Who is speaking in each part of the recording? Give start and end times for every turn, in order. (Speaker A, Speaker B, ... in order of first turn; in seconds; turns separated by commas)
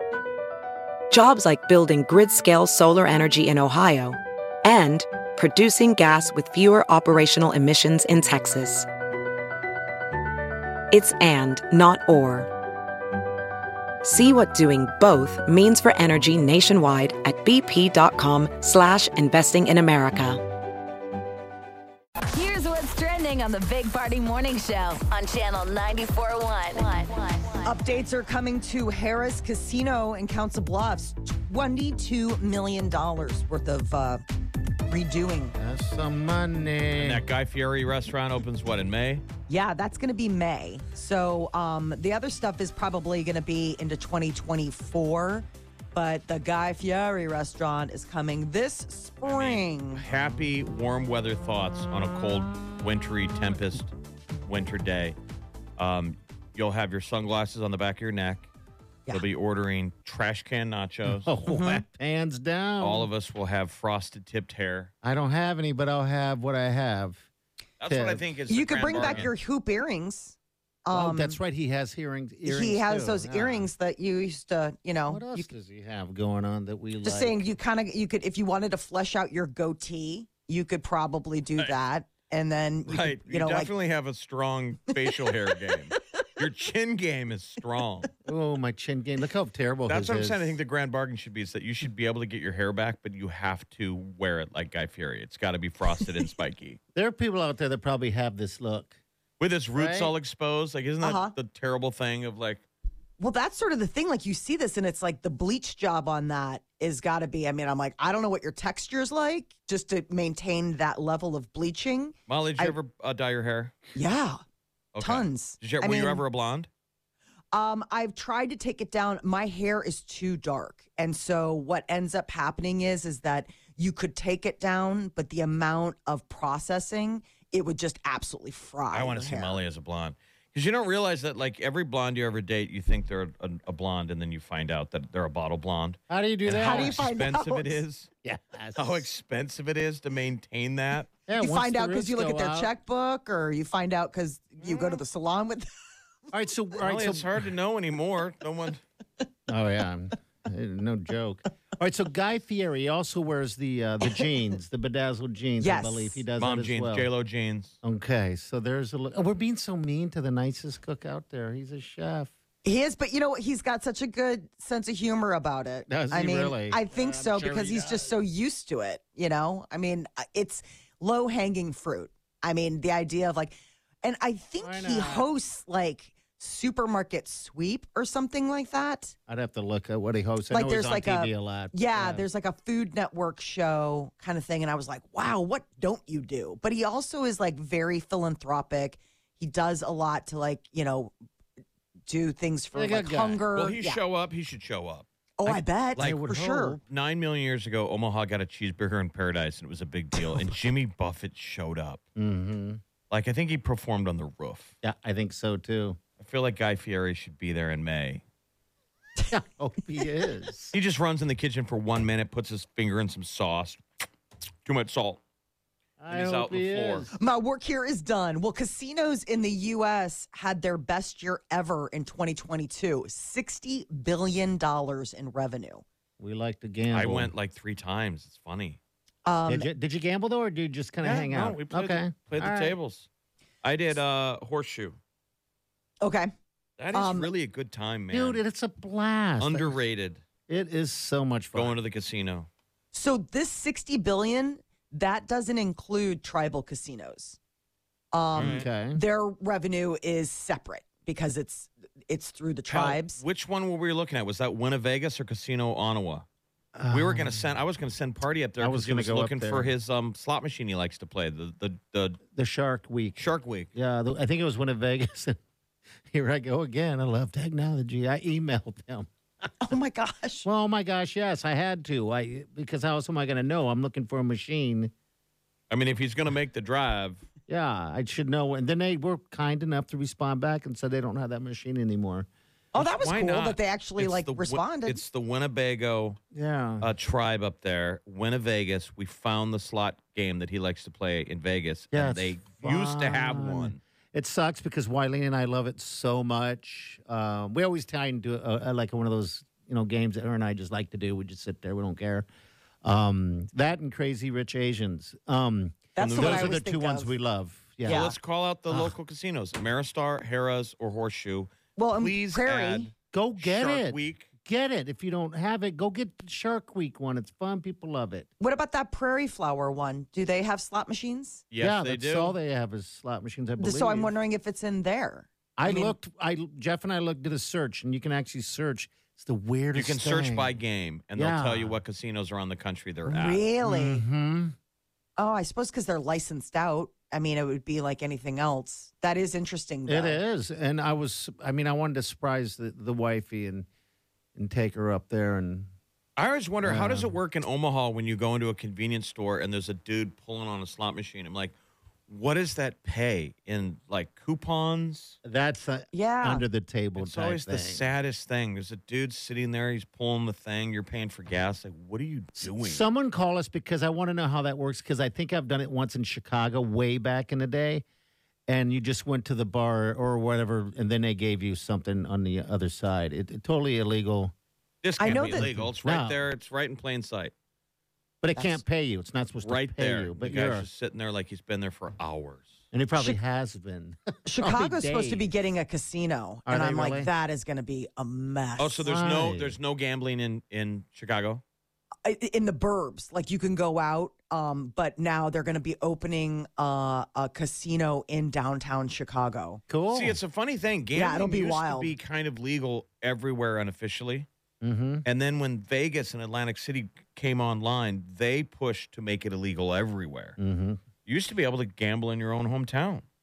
Speaker A: 1.1-8.9, Speaker A: 10.9-12.5, Speaker A: 14.0-20.4, Speaker B: 22.3-27.7, Speaker C: 27.6-34.2, Speaker C: 34.9-35.6, Speaker D: 35.6-37.2, Speaker E: 37.0-39.2, Speaker C: 39.5-50.0, Speaker E: 49.2-53.9, Speaker E: 54.5-55.1, Speaker E: 55.8-58.5, Speaker E: 59.1-61.4, Speaker D: 61.0-63.1, Speaker C: 61.5-61.8, Speaker E: 62.8-64.9, Speaker D: 65.0-67.2, Speaker E: 67.8-69.3, Speaker D: 67.9-68.2, Speaker C: 68.5-71.4, Speaker D: 68.9-69.3, Speaker D: 70.9-73.7, Speaker C: 72.4-75.5, Speaker D: 75.1-77.4, Speaker C: 77.0-83.7, Speaker E: 82.9-88.1, Speaker D: 88.2-90.6, Speaker E: 89.9-96.8, Speaker D: 96.9-99.0, Speaker E: 99.4-102.6, Speaker D: 99.7-100.1, Speaker C: 101.0-101.3, Speaker C: 103.2-112.8, Speaker E: 112.3-113.8, Speaker C: 113.9-114.4, Speaker E: 114.9-116.7, Speaker C: 115.0-116.2, Speaker C: 117.5-129.6, Speaker E: 128.9-138.1, Speaker D: 136.1-137.1, Speaker C: 136.6-137.8, Speaker D: 138.2-139.1, Speaker E: 138.7-141.1, Speaker D: 141.3-142.7, Speaker C: 141.4-145.7, Speaker D: 144.6-145.0, Speaker D: 146.3-147.4, Speaker E: 146.8-148.8, Speaker D: 149.5-157.1, Speaker C: 155.6-156.2, Speaker E: 156.4-157.7, Speaker D: 157.8-162.3, Speaker C: 162.6-179.1, Speaker D: 165.9-168.2, Speaker D: 174.6-175.3, Speaker D: 179.3-182.2, Speaker C: 180.5-191.1, Speaker C: 192.1-194.0, Speaker D: 192.7-193.4, Speaker E: 193.5-196.3, Speaker C: 195.4-196.8, Speaker D: 196.0-196.8, Speaker E: 196.8-202.0, Speaker D: 202.2-202.8, Speaker E: 203.1-204.7, Speaker D: 204.8-206.0, Speaker E: 206.2-208.2, Speaker D: 209.3-210.8, Speaker E: 210.7-213.8, Speaker E: 214.6-215.2, Speaker D: 216.0-217.1, Speaker E: 216.1-217.1, Speaker C: 217.2-225.8, Speaker D: 226.2-227.3, Speaker E: 226.9-228.8, Speaker C: 229.2-229.7, Speaker D: 229.5-232.8, Speaker E: 231.0-233.1, Speaker E: 233.6-235.0, Speaker C: 236.0-236.3, Speaker E: 236.8-238.4, Speaker C: 236.9-237.3, Speaker D: 238.1-239.8, Speaker E: 239.4-240.2, Speaker D: 240.5-241.8, Speaker E: 241.5-242.5, Speaker C: 242.9-247.4, Speaker C: 248.1-253.2, Speaker E: 248.3-248.7, Speaker D: 248.3-249.0, Speaker E: 252.7-256.2, Speaker D: 256.8-257.5, Speaker E: 256.9-262.2, Speaker D: 258.6-259.7, Speaker D: 262.3-265.4, Speaker E: 263.2-263.7, Speaker D: 266.1-269.5, Speaker C: 269.6-270.5, Speaker D: 270.4-274.9, Speaker E: 275.7-277.2, Speaker D: 277.5-282.3, Speaker C: 282.7-285.0, Speaker E: 282.8-286.2, Speaker D: 286.3-286.9, Speaker E: 286.8-293.8, Speaker D: 291.9-302.3, Speaker D: 302.8-308.1, Speaker C: 305.9-307.1, Speaker E: 306.0-306.6, Speaker E: 307.9-314.3, Speaker C: 307.9-308.1, Speaker D: 308.7-308.9, Speaker C: 311.8-312.9, Speaker D: 313.1-318.3, Speaker C: 318.4-321.4, Speaker E: 321.5-322.4, Speaker D: 321.6-324.1, Speaker C: 323.6-325.9, Speaker D: 325.6-330.5, Speaker E: 329.7-333.4, Speaker D: 331.1-331.8, Speaker C: 333.1-334.0, Speaker D: 333.6-334.5, Speaker C: 335.2-340.2, Speaker D: 339.9-343.7, Speaker D: 344.3-345.7, Speaker E: 346.2-351.5, Speaker D: 346.6-347.1, Speaker E: 352.1-355.2, Speaker D: 355.2-357.9, Speaker C: 355.9-356.4, Speaker E: 357.0-362.8, Speaker D: 362.4-367.8, Speaker D: 368.5-374.3, Speaker E: 374.8-377.3, Speaker C: 375.0-375.5, Speaker D: 375.0-376.2, Speaker D: 378.2-380.7, Speaker C: 378.4-378.6, Speaker E: 379.4-382.6, Speaker D: 382.7-385.3, Speaker C: 384.2-388.8, Speaker D: 386.4-387.1, Speaker E: 388.6-391.4, Speaker D: 388.8-389.6, Speaker C: 392.0-399.6, Speaker D: 399.7-400.2, Speaker E: 399.9-404.3, Speaker C: 400.9-401.9, Speaker D: 404.6-405.0, Speaker E: 405.0-410.4, Speaker D: 410.4-410.8, Speaker E: 411.0-413.0